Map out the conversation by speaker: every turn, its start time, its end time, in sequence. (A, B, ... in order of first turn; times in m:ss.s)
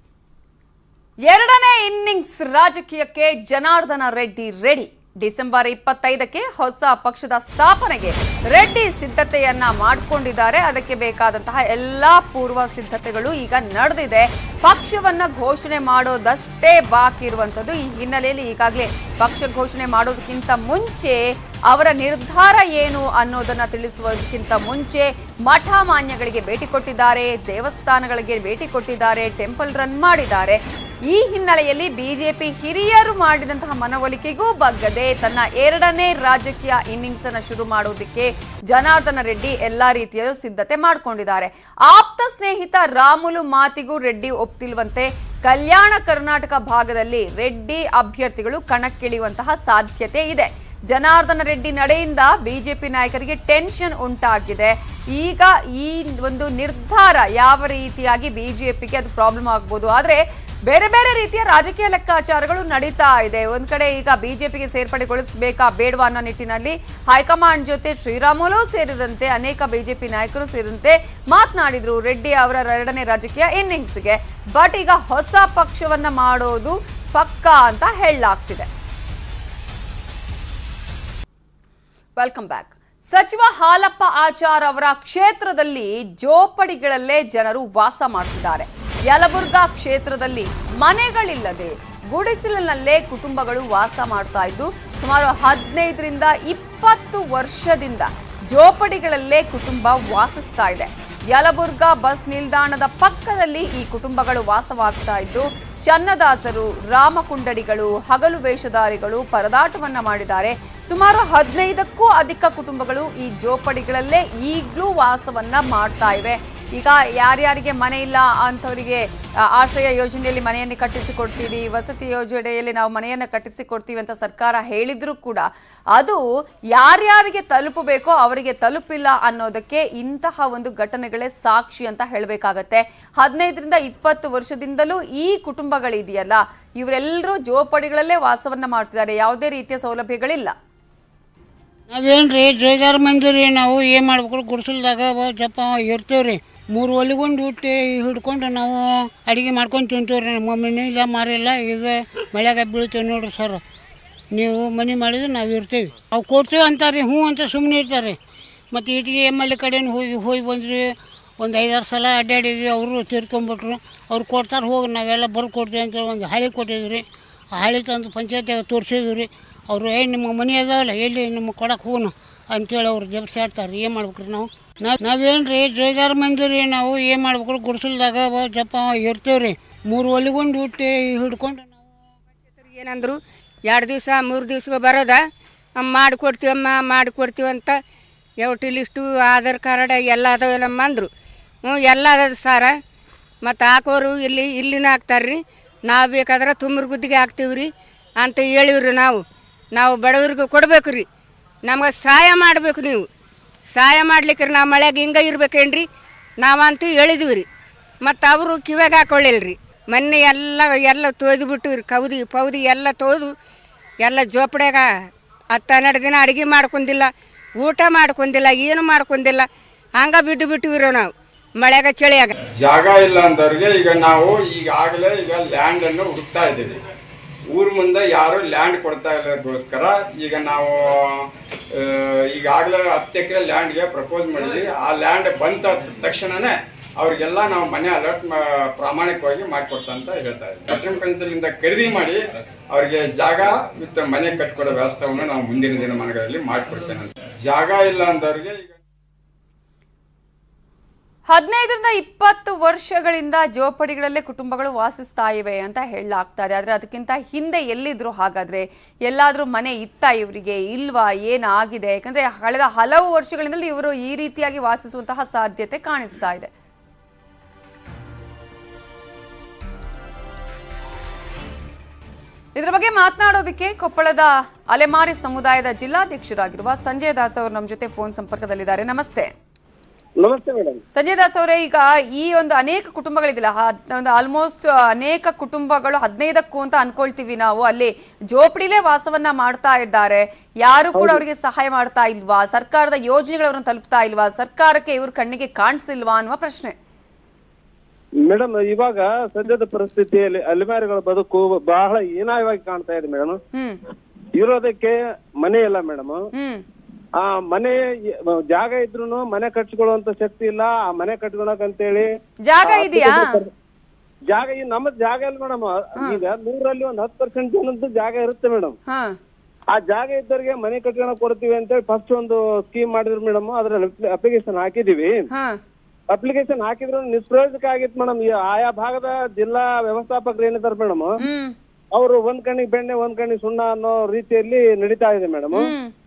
0:01.3-1:18.7 A
1:22.2-2:20.5 A
2:21.9-2:33.6 B
2:34.3-2:38.2 B
2:38.7-3:01.9 B
3:02.6-3:05.3 C
3:05.8-3:07.8 C
3:08.4-3:11.1 C
3:11.6-3:12.8 C
3:13.4-3:19.2 C
3:19.8-3:21.1 C
3:21.6-3:23.1 C
3:23.7-3:25.9 C
3:26.4-3:27.5 C
3:28.0-3:33.3 C
3:34.0-3:34.9 C
3:35.5-3:39.5 C
3:40.0-3:42.3 C
3:42.4-3:46.8 D
3:47.5-4:08.8 D
4:11.3-4:26.5 A
4:32.6-4:39.3 A
4:40.2-4:40.8 E
4:41.0-4:56.7 A
4:58.3-5:03.4 E
5:03.5-5:03.8 A
5:04.4-5:06.2 E
5:06.3-5:06.6 A
5:07.2-5:07.8 E
5:08.5-5:12.1 E
5:12.5-5:13.4 A
5:12.6-5:13.5 E
5:14.3-5:18.8 E
5:18.9-5:19.2 A
5:19.7-5:25.2 E
5:25.3-5:25.6 A
5:26.1-5:31.1 E
5:31.2-5:31.6 A
5:32.0-5:35.7 E
5:35.5-5:35.9 A